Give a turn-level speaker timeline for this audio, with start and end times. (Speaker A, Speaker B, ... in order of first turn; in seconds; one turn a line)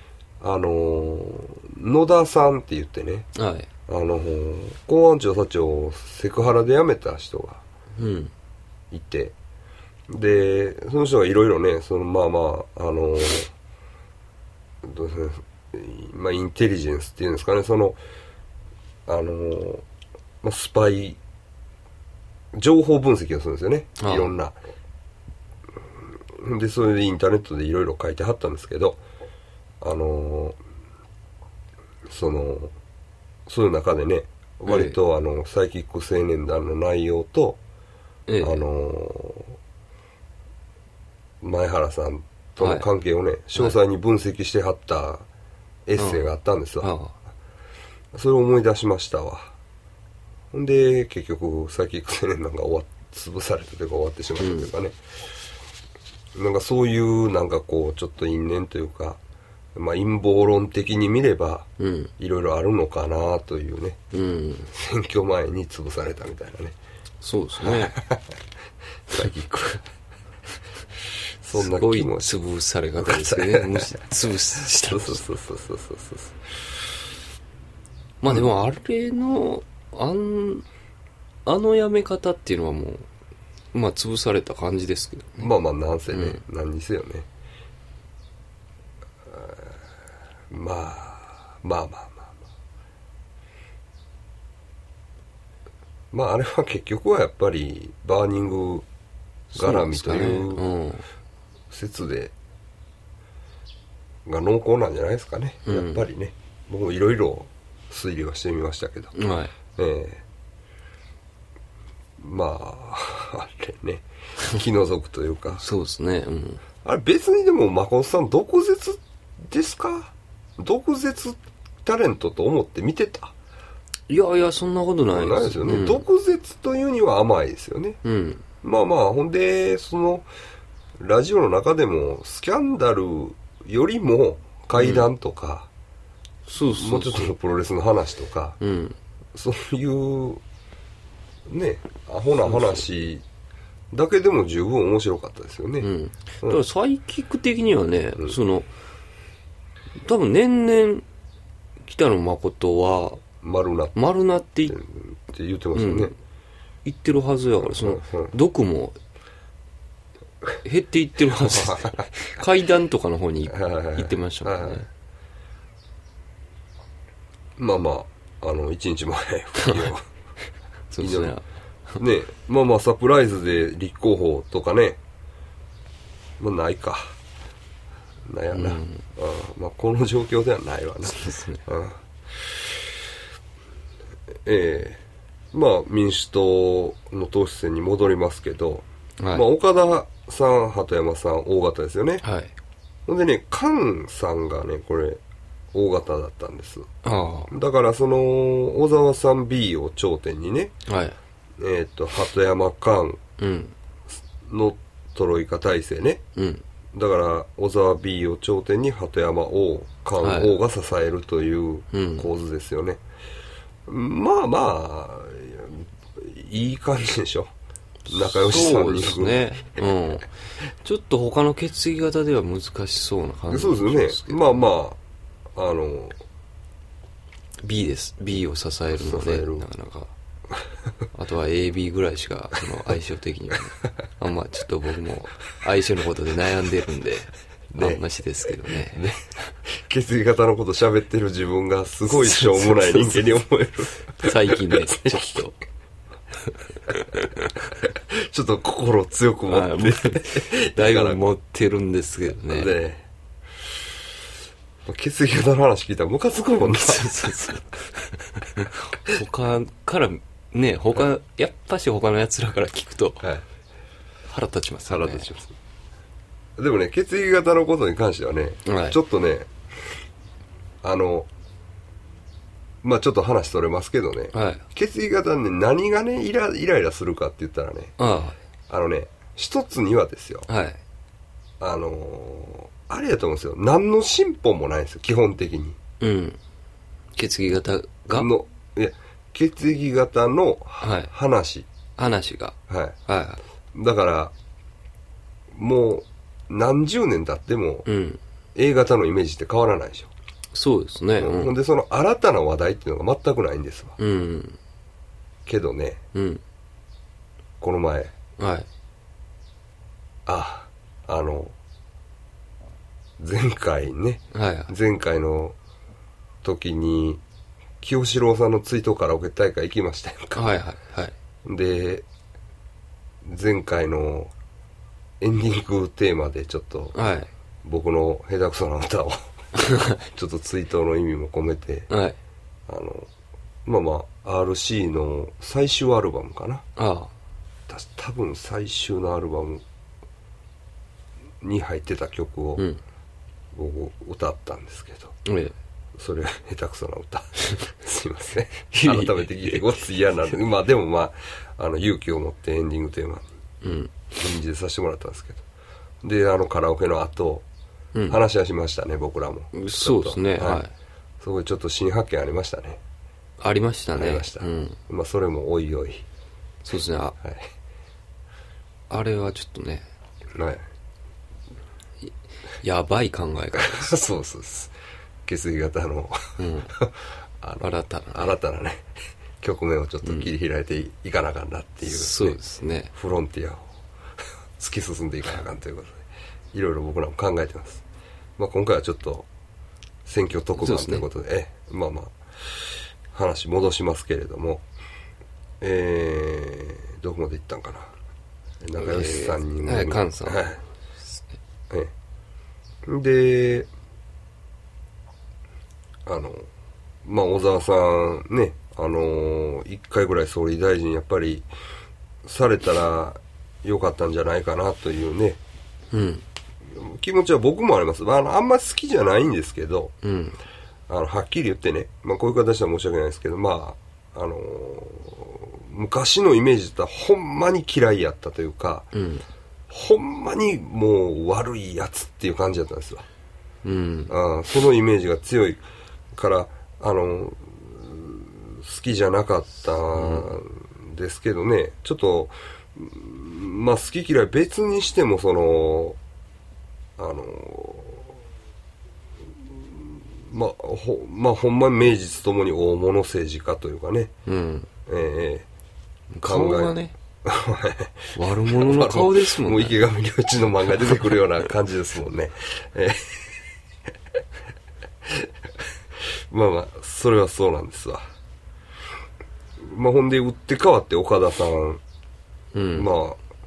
Speaker A: 0.4-3.3
Speaker B: 3.4-3.7
Speaker A: 3.9-7.6
Speaker B: 8.0-8.3
Speaker A: 8.9-9.3
Speaker A: 10.1-13.5
Speaker A: 14.8-18.0
Speaker A: 19.1-19.9
Speaker A: 20.4-21.2
Speaker A: 22.5-24.6
Speaker B: 24.0-24.3
Speaker A: 26.3-29.0
Speaker A: 29.8-30.6
Speaker A: 32.1-32.7
Speaker A: 33.5-37.6
Speaker B: 34.7-35.0
Speaker B: 38.3-38.6
Speaker A: 38.4-39.6
Speaker A: 41.4-45.3
Speaker B: 42.6-42.9
Speaker A: 45.9-46.9
Speaker B: 46.0-47.1
Speaker A: 48.1-49.5
Speaker A: 50.5-55.0
Speaker B: 54.4-54.7
Speaker A: 56.4-59.2
Speaker A: 59.8-64.0
Speaker B: 61.8-62.1
Speaker B: 64.1-64.7
Speaker A: 64.7-66.8
Speaker B: 67.2-68.0
Speaker A: 67.6-68.3
Speaker A: 69.1-69.8
Speaker A: 71.4-72.4
Speaker B: 71.5-75.2
Speaker A: 73.0-74.1
Speaker A: 74.8-76.4
Speaker B: 78.2-80.7
Speaker B: 81.5-83.1
Speaker B: 83.7-85.5
Speaker A: 85.4-87.3
Speaker B: 86.1-86.4
Speaker A: 89.3-89.8
Speaker A: 90.5-92.4
Speaker A: 96.1-98.9
Speaker B: 99.5-101.0
Speaker A: 99.5-100.7
Speaker A: 101.7-102.3
Speaker A: 104.3-109.1
Speaker B: 105.7-106.0
Speaker B: 109.2-109.5
Speaker A: 109.7-110.2
Speaker A: 112.2-115.6
Speaker B: 115.6-116.6
Speaker A: 116.8-123.3
Speaker B: 124.1-126.0
Speaker A: 125.1-128.0
Speaker B: 128.0-128.4
Speaker A: 128.6-130.3
Speaker A: 131.0-135.7
Speaker B: 134.8-135.1
Speaker B: 136.5-137.3
Speaker A: 136.8-138.6
Speaker B: 138.6-139.0
Speaker A: 139.3-140.4
Speaker A: 141.5-143.2
Speaker B: 142.4-142.8
Speaker A: 143.9-145.9
Speaker B: 145.8-148.7
Speaker B: 150.0-151.0
Speaker B: 151.8-153.2
Speaker A: 153.4-154.0
Speaker B: 153.9-154.8
Speaker A: 154.7-156.1
Speaker B: 155.8-156.1
Speaker B: 156.8-159.0
Speaker A: 157.8-158.3
Speaker B: 160.6-164.9
Speaker A: 161.3-162.0
Speaker A: 163.5-164.8
Speaker A: 167.6-170.0
Speaker B: 169.6-169.9
Speaker B: 170.9-171.4
Speaker A: 171.0-171.3
Speaker A: 172.0-175.0
Speaker A: 176.4-177.2
Speaker A: 178.3-182.6
Speaker B: 178.5-179.0
Speaker B: 181.1-181.6
Speaker A: 184.4-185.0
Speaker A: 185.5-192.2
Speaker B: 189.2-189.4
Speaker B: 192.2-192.5
Speaker A: 193.1-195.2
Speaker A: 195.7-196.9
Speaker B: 197.0-197.5
Speaker A: 197.5-200.8
Speaker B: 200.9-201.2
Speaker A: 201.6-203.2
Speaker B: 203.4-203.8
Speaker A: 204.4-206.2
Speaker B: 206.4-206.6
Speaker A: 206.9-213.0
Speaker B: 210.2-210.5
Speaker B: 211.9-212.3
Speaker A: 213.9-217.5
Speaker A: 218.1-219.5
Speaker B: 218.1-220.3
Speaker B: 220.8-224.6
Speaker A: 223.5-225.0
Speaker A: 225.6-226.2
Speaker B: 227.6-230.1
Speaker A: 228.9-229.7
Speaker B: 231.1-239.4
Speaker A: 237.7-238.0
Speaker A: 238.9-245.4
Speaker B: 242.1-243.3
Speaker B: 244.2-245.6
Speaker B: 246.5-247.7
Speaker A: 247.8-251.2
Speaker B: 249.5-252.8
Speaker A: 252.5-253.1
Speaker A: 254.9-257.4
Speaker B: 256.6-263.3
Speaker B: 264.3-265.3
Speaker A: 264.9-265.5
Speaker A: 266.6-269.5
Speaker B: 268.7-269.0
Speaker A: 270.8-271.3
Speaker A: 272.8-278.0
Speaker B: 274.3-274.6
Speaker B: 278.0-278.4
Speaker A: 278.7-280.5
Speaker B: 280.5-280.8
Speaker A: 281.6-285.8
Speaker B: 286.0-286.4
Speaker B: 287.2-288.3
Speaker A: 288.1-291.7
Speaker B: 290.8-291.1
Speaker B: 292.0-293.4
Speaker A: 292.7-293.0
Speaker A: 293.7-294.3
Speaker A: 295.5-297.9
Speaker B: 297.9-298.2
Speaker A: 298.6-300.1
Speaker B: 300.5-301.5
Speaker A: 301.2-304.0
Speaker B: 304.0-304.6
Speaker A: 305.5-306.0
Speaker B: 306.1-306.4
Speaker A: 307.6-308.1
Speaker B: 308.4-308.7
Speaker A: 310.3-311.6
Speaker A: 313.2-315.6
Speaker B: 314.3-314.7
Speaker A: 316.4-317.2
Speaker A: 317.8-320.5
Speaker B: 320.4-321.1
Speaker A: 321.4-322.1
Speaker A: 323.2-324.3
Speaker A: 325.2-327.0
Speaker B: 326.9-327.3
Speaker A: 327.6-329.3
Speaker B: 329.6-330.0
Speaker A: 330.0-331.9
Speaker B: 331.9-332.2
Speaker A: 332.7-333.1
Speaker A: 333.6-336.7
Speaker B: 336.8-337.1
Speaker A: 337.7-339.6
Speaker A: 341.4-342.6
Speaker A: 343.5-345.2
Speaker B: 345.2-345.6
Speaker A: 346.0-353.3
Speaker B: 348.8-349.7
Speaker B: 353.6-354.1
Speaker A: 354.1-355.4
Speaker A: 356.0-357.4
Speaker B: 357.9-358.2
Speaker A: 358.1-360.6
Speaker B: 359.5-360.7
Speaker A: 361.2-362.8
Speaker B: 363.4-364.8
Speaker A: 363.9-366.1
Speaker B: 366.6-367.2
Speaker A: 367.2-367.5
Speaker B: 368.9-369.9
Speaker A: 370.3-370.6
Speaker B: 372.6-373.9
Speaker A: 373.6-374.7
Speaker A: 375.2-378.9
Speaker B: 376.4-376.7
Speaker B: 377.6-378.3
Speaker A: 379.4-382.4
Speaker B: 380.0-380.3
Speaker B: 381.8-382.9
Speaker A: 382.9-383.7
Speaker A: 384.6-387.8
Speaker A: 388.4-389.3
Speaker A: 390.1-394.6
Speaker B: 390.6-391.1
Speaker A: 395.6-397.9
Speaker A: 398.6-400.6
Speaker B: 398.8-400.5
Speaker A: 402.9-403.7
Speaker A: 406.1-406.5
Speaker A: 407.0-411.5
Speaker A: 412.2-415.4
Speaker B: 415.9-416.2
Speaker A: 416.7-419.9
Speaker B: 420.0-420.4
Speaker A: 420.9-428.9
Speaker B: 428.9-429.2
Speaker A: 429.7-433.1
Speaker B: 433.6-434.1
Speaker A: 434.1-435.6
Speaker A: 436.1-446.0
Speaker B: 439.9-440.3
Speaker A: 447.0-448.1
Speaker A: 449.4-454.1
Speaker B: 454.3-454.7
Speaker A: 454.9-455.5
Speaker B: 456.1-456.9
Speaker A: 456.2-463.4
Speaker B: 458.1-459.8
Speaker A: 465.1-465.6
Speaker A: 466.3-468.0
Speaker A: 469.6-471.8
Speaker B: 472.5-472.9
Speaker A: 472.8-473.2